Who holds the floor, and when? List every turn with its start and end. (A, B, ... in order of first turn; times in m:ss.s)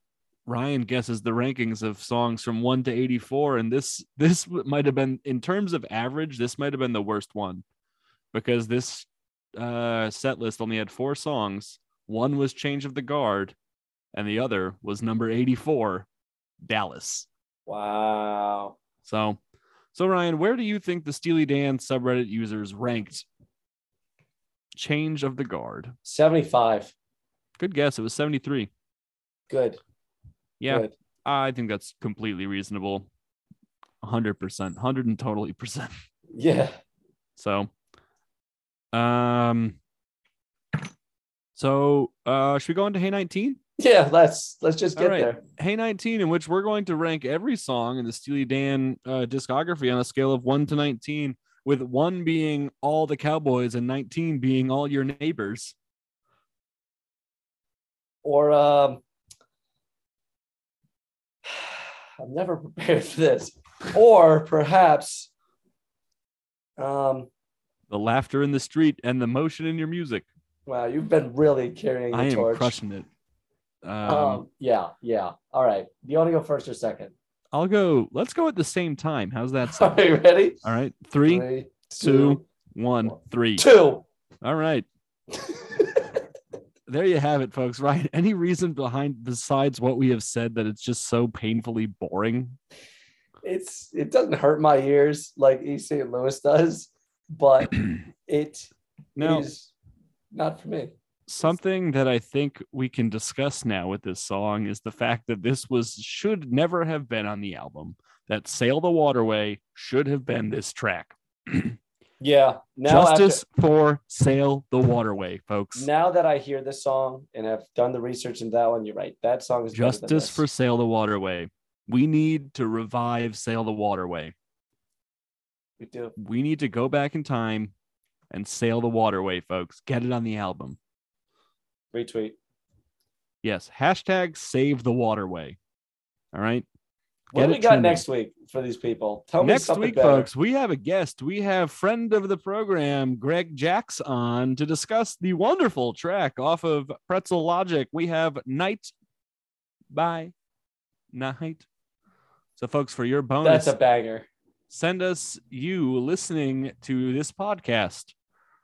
0:00.5-0:07.6 A
0:08.3-0:13.6 A
0:14.1-0:16.1 A
0:16.6-0:17.3 A
0:17.7-0:18.8 B
0:19.0-0:19.4 A
0:19.9-0:23.3 A
0:24.8-0:25.9 A
0:26.0-0:26.9 B
0:27.6-0:28.7 A
0:29.5-0:29.8 B
0:30.6-0:33.1 A
0:30.7-0:30.9 B
0:34.0-0:35.9 A
0:36.4-0:36.8 B
0:37.4-0:37.7 A
0:38.9-0:39.8 A
0:41.6-0:43.6 A
0:43.8-0:45.4 B
0:45.0-0:55.8 A
0:58.2-0:59.0 B
1:01.4-1:05.3 B
1:06.8-1:07.3 B
1:07.9-1:10.3 A
1:10.7-1:12.7 B
1:12.1-1:13.1 A
1:13.8-1:14.4 A
1:14.1-1:17.1 B
1:17.5-1:20.0 A
1:19.7-1:20.6 B
1:20.6-1:21.5 A
1:21.3-1:22.4 B
1:22.0-1:23.6 A
1:23.0-1:24.0 B
1:24.4-1:24.9 A
1:25.4-1:26.2 B
1:26.9-1:32.6 A
1:33.4-1:39.7 B
1:39.2-1:39.5 A
1:40.3-1:41.6 B
1:41.3-1:51.8 A
1:52.2-1:53.4 B
1:52.9-1:55.9 A
1:55.8-2:00.4 B
1:59.7-2:04.3 A
2:05.8-2:06.1 B
2:06.2-2:07.7 A
2:08.3-2:10.8 A
2:11.9-2:12.4 B
2:13.4-2:15.6 A
2:16.3-2:16.7 A
2:17.3-2:18.0 A
2:17.3-2:20.3 B
2:19.4-2:28.9 A
2:29.9-2:30.3 A
2:31.1-2:31.7 A
2:32.6-2:33.8 A
2:33.4-2:34.3 B
2:34.7-2:38.1 A